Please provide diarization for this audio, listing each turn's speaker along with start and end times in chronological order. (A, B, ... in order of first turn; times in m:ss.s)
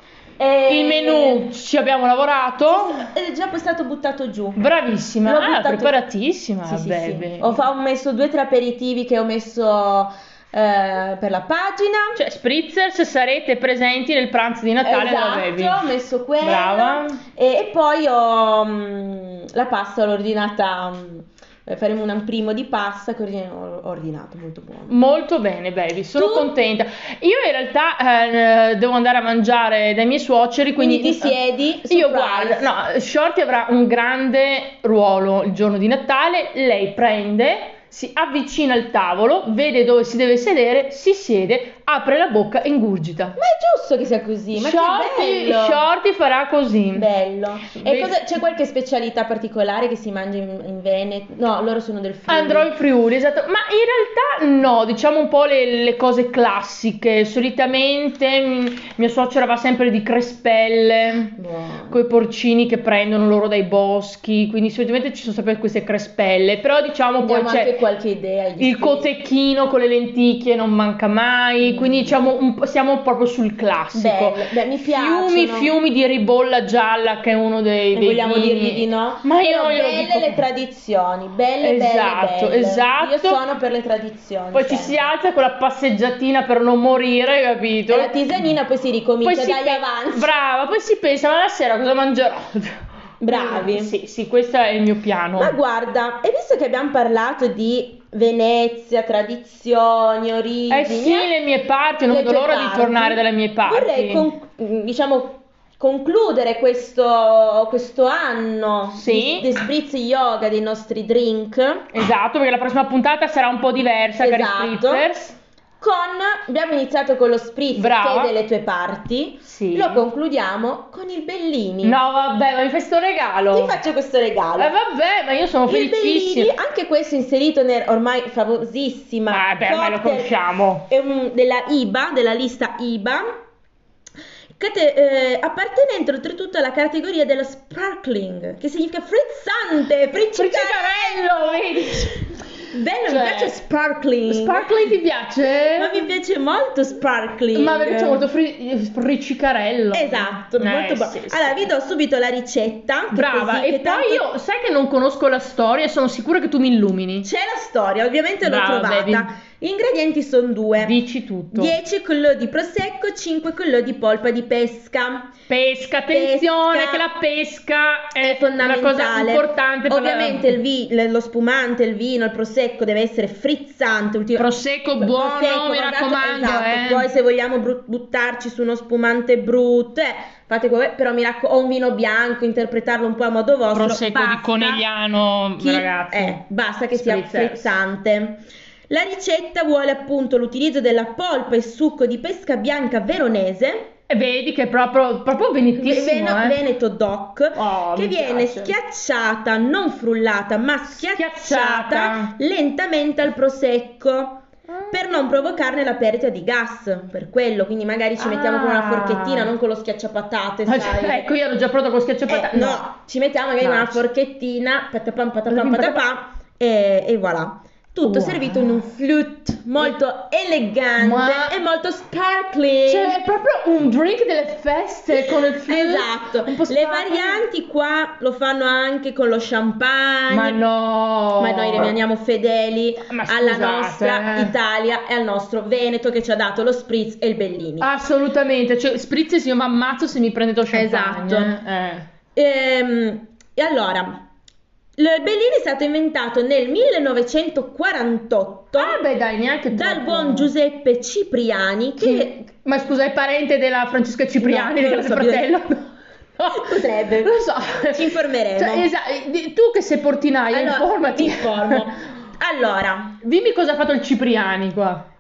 0:00.4-0:01.5 A
0:00.7-0:03.0 B
0:02.7-0:04.6 A
0:04.6-0:07.6 B
0:05.2-0:06.0 A
0:06.6-0:12.2 A
0:12.2-0:15.8 B
0:14.8-0:25.0 A
0:16.4-0:17.2 B
0:24.9-0:31.4 B
0:26.2-0:26.5 A
0:30.8-0:32.7 A
0:31.9-0:43.4 B
0:43.4-0:45.8 A
0:44.5-0:47.1 B
0:46.9-0:52.7 A
0:47.8-0:48.3 B
0:52.3-1:01.4 B
1:01.4-1:02.0 A
1:01.9-1:07.7 B
1:07.2-1:09.1 A
1:08.6-1:20.4 B
1:11.6-1:12.2 A
1:13.9-1:15.7 A
1:17.9-1:25.1 A
1:21.6-1:23.4 B
1:24.5-1:28.1 B
1:27.9-1:30.3 A
1:29.2-1:32.7 B
1:33.2-1:33.9 A
1:33.3-1:35.5 B
1:35.4-1:41.3 A
1:40.7-1:44.3 B
1:42.1-1:51.8 A
1:49.0-1:49.5 B
1:51.9-1:55.4 B
1:54.2-1:55.1 A
1:55.8-2:02.0 A
1:57.8-1:58.3 B
1:59.5-2:00.0 B
2:01.8-2:03.8 B
2:03.5-2:04.7 A
2:04.6-2:06.5 B
2:05.7-2:10.3 A
2:09.3-2:10.8 B
2:10.9-2:13.2 A
2:14.6-2:21.9 A
2:20.3-2:22.3 B
2:22.7-2:24.7 A
2:23.1-2:23.6 B
2:24.3-2:26.0 B
2:25.8-2:28.2 A
2:27.6-2:31.7 B
2:29.9-2:34.2 A
2:33.1-2:37.3 B
2:37.2-2:41.0 A
2:38.4-2:39.3 B
2:40.8-2:41.8 B
2:41.5-2:45.3 A
2:45.5-2:50.6 B
2:46.1-2:47.0 A
2:48.2-3:04.8 A
2:54.4-2:57.1 B
3:03.7-3:06.4 B
3:05.6-3:13.9 A
3:06.9-3:07.7 B
3:14.1-3:16.6 B
3:15.8-3:31.3 A
3:17.6-3:18.8 B
3:20.9-3:22.3 B
3:24.8-3:25.2 B
3:28.2-3:29.5 B
3:30.7-3:32.9 B
3:32.3-3:43.2 A
3:33.6-3:34.0 B
3:35.5-3:36.0 B
3:38.0-3:38.8 B
3:41.0-3:41.6 B
3:42.9-3:47.5 B
3:45.7-3:50.6 A
3:50.3-3:52.0 B
3:51.4-3:57.9 A
3:53.1-3:54.5 B
3:57.8-4:02.1 B
4:00.7-4:01.5 A
4:02.4-4:04.2 A
4:05.0-4:09.0 A
4:08.8-4:10.5 B
4:09.7-4:12.3 A
4:12.0-4:15.9 B
4:14.4-4:15.5 A
4:16.4-4:21.8 B
4:16.5-4:17.3 A
4:17.9-4:18.9 A
4:20.5-4:23.2 A
4:23.2-4:25.0 B